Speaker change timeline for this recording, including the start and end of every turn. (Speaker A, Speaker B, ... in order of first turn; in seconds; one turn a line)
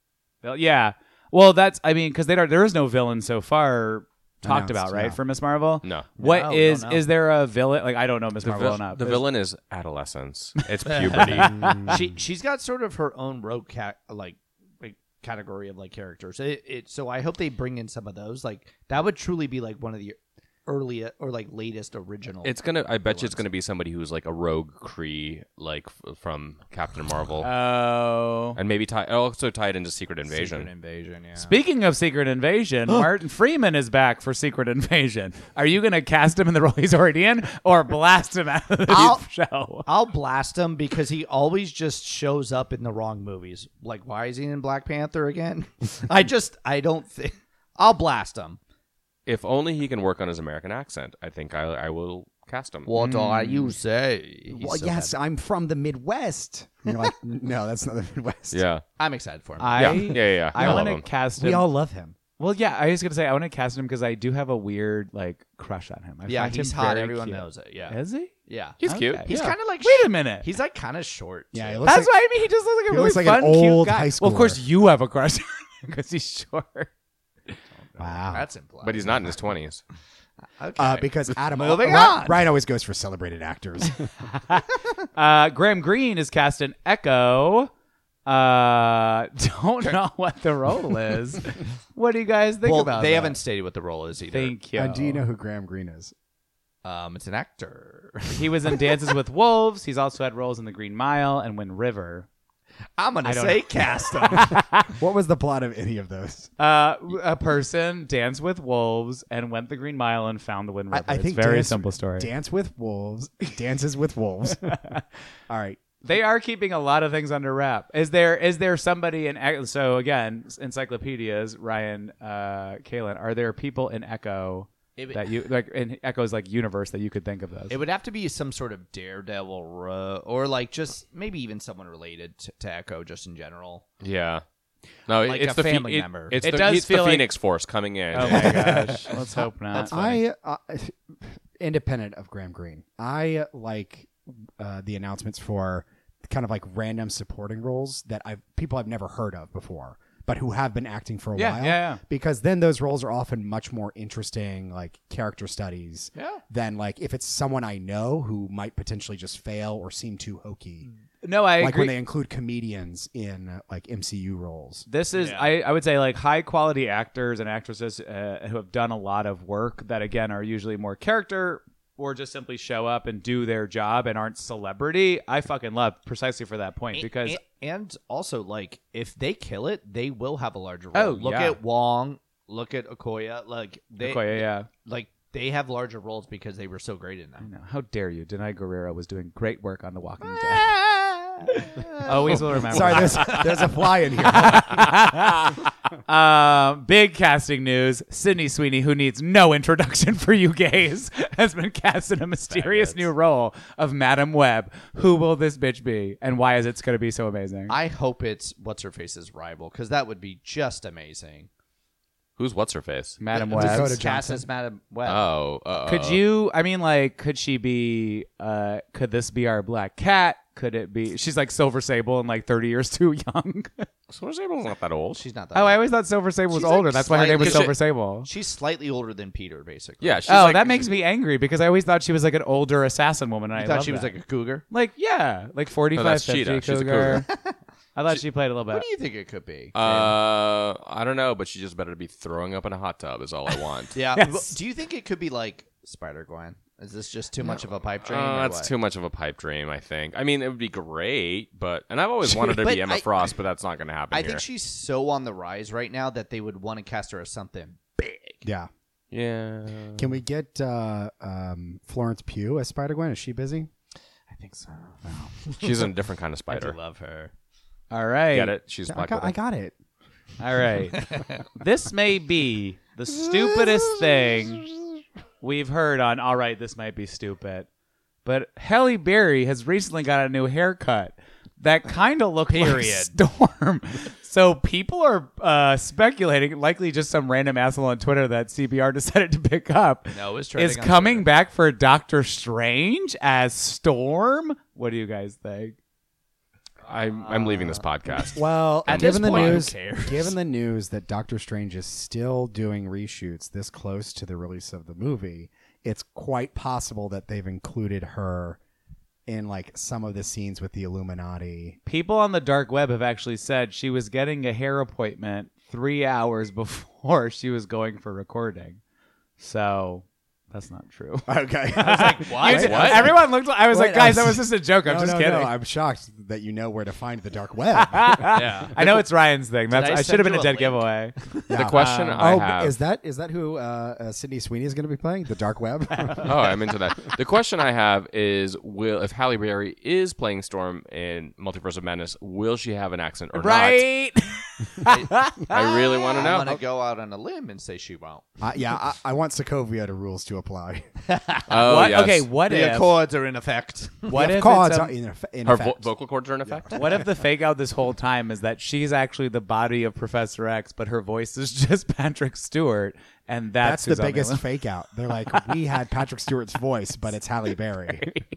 Speaker A: 0.4-9.2
Speaker B: 4.4-5.2
Speaker C: 5.8-6.1
Speaker D: 6.2-7.1
Speaker C: 8.4-11.6
Speaker D: 10.9-23.4
Speaker A: 11.2-11.9
Speaker B: 11.5-12.1
Speaker C: 22.4-27.5
Speaker A: 27.4-28.6
Speaker C: 28.6-30.7
Speaker D: 30.3-31.6
Speaker A: 31.4-39.9
Speaker D: 38.9-39.2
Speaker D: 39.9-48.6
Speaker C: 49.3-52.9
Speaker D: 52.9-55.1
Speaker A: 53.0-53.8
Speaker B: 54.5-58.6
Speaker C: 58.5-58.8
Speaker D: 59.0-60.2
Speaker A: 59.6-61.7
Speaker C: 59.8-61.0
Speaker B: 60.6-62.2
Speaker A: 62.4-70.5
Speaker D: 66.3-72.0
Speaker C: 68.8-69.6
Speaker B: 71.5-72.1
Speaker A: 71.8-76.9
Speaker B: 72.9-74.6
Speaker D: 77.8-79.5
Speaker B: 78.0-78.5
Speaker C: 78.8-79.8
Speaker D: 80.6-82.5
Speaker B: 80.8-84.1
Speaker A: 84.3-87.7
Speaker A: 88.3-93.4
Speaker D: 92.6-94.6
Speaker A: 94.3-95.2
Speaker B: 94.8-96.1
Speaker D: 96.8-99.0
Speaker A: 98.3-102.3
Speaker D: 103.0-104.6
Speaker A: 103.2-104.9
Speaker B: 105.0-106.5
Speaker A: 106.6-112.3
Speaker B: 110.9-114.8
Speaker A: 114.7-115.0
Speaker B: 115.5-115.8
Speaker A: 116.0-127.8
Speaker D: 125.0-125.3
Speaker D: 127.7-133.8
Speaker C: 134.0-134.4
Speaker C: 135.1-139.0
Speaker D: 135.2-136.4
Speaker A: 136.4-137.3
Speaker A: 138.1-139.9
Speaker B: 138.5-160.9
Speaker D: 139.7-140.2
Speaker A: 151.4-152.0
Speaker D: 156.2-156.4
Speaker A: 161.2-162.0
Speaker B: 161.6-164.9
Speaker A: 164.9-177.4
Speaker D: 165.1-165.5
Speaker D: 176.9-187.5
Speaker A: 180.9-181.6
Speaker A: 184.0-184.7
Speaker A: 187.4-190.7
Speaker D: 190.2-193.5
Speaker A: 191.4-193.6
Speaker B: 192.7-194.9
Speaker A: 194.2-207.8
Speaker D: 202.5-203.1
Speaker D: 207.7-211.5
Speaker C: 212.4-213.2
Speaker A: 213.2-214.0
Speaker D: 213.3-215.3
Speaker B: 213.5-214.4
Speaker C: 215.1-216.2
Speaker A: 215.9-223.9
Speaker C: 224.1-225.2
Speaker D: 225.2-225.8
Speaker A: 225.5-228.3
Speaker D: 226.5-230.5
Speaker C: 227.4-227.7
Speaker C: 230.0-230.9
Speaker A: 230.3-234.2
Speaker D: 233.6-234.7
Speaker A: 234.7-237.3
Speaker C: 236.0-237.2
Speaker D: 237.3-237.6
Speaker A: 237.9-238.8
Speaker D: 238.7-240.2
Speaker C: 239.8-243.9
Speaker D: 243.9-248.7
Speaker A: 244.2-244.6
Speaker C: 247.4-254.4
Speaker D: 252.2-253.3
Speaker D: 254.1-258.4
Speaker B: 258.4-258.7
Speaker C: 259.1-260.1
Speaker B: 260.0-263.7
Speaker D: 265.4-265.9
Speaker C: 265.6-266.8
Speaker D: 266.5-267.3
Speaker A: 267.9-268.5
Speaker C: 268.3-269.3
Speaker B: 268.9-269.7
Speaker A: 270.4-274.7
Speaker D: 270.9-271.5
Speaker A: 275.4-277.7
Speaker A: 278.2-295.8
Speaker D: 282.5-283.1
Speaker D: 290.1-291.2
Speaker C: 296.9-299.7
Speaker D: 297.2-297.8
Speaker B: 298.4-308.6
Speaker D: 298.9-300.3
Speaker B: 309.3-311.8
Speaker A: 311.9-318.8
Speaker A: 319.4-325.5
Speaker B: 321.3-328.4
Speaker D: 321.8-323.1
Speaker C: 322.5-323.1
Speaker A: 327.8-332.4
Speaker D: 328.3-329.0
Speaker D: 329.7-331.4
Speaker B: 331.5-336.6
Speaker C: 331.5-332.8
Speaker C: 336.2-343.9
Speaker A: 343.3-346.0
Speaker D: 344.9-345.2
Speaker C: 345.4-346.6
Speaker D: 346.1-348.2
Speaker B: 348.4-350.9
Speaker D: 351.1-354.2
Speaker C: 351.5-352.3
Speaker A: 351.6-352.9
Speaker A: 354.1-354.9
Speaker B: 354.1-355.9
Speaker C: 355.4-356.9
Speaker B: 356.5-356.8
Speaker A: 356.7-364.4
Speaker B: 363.6-368.1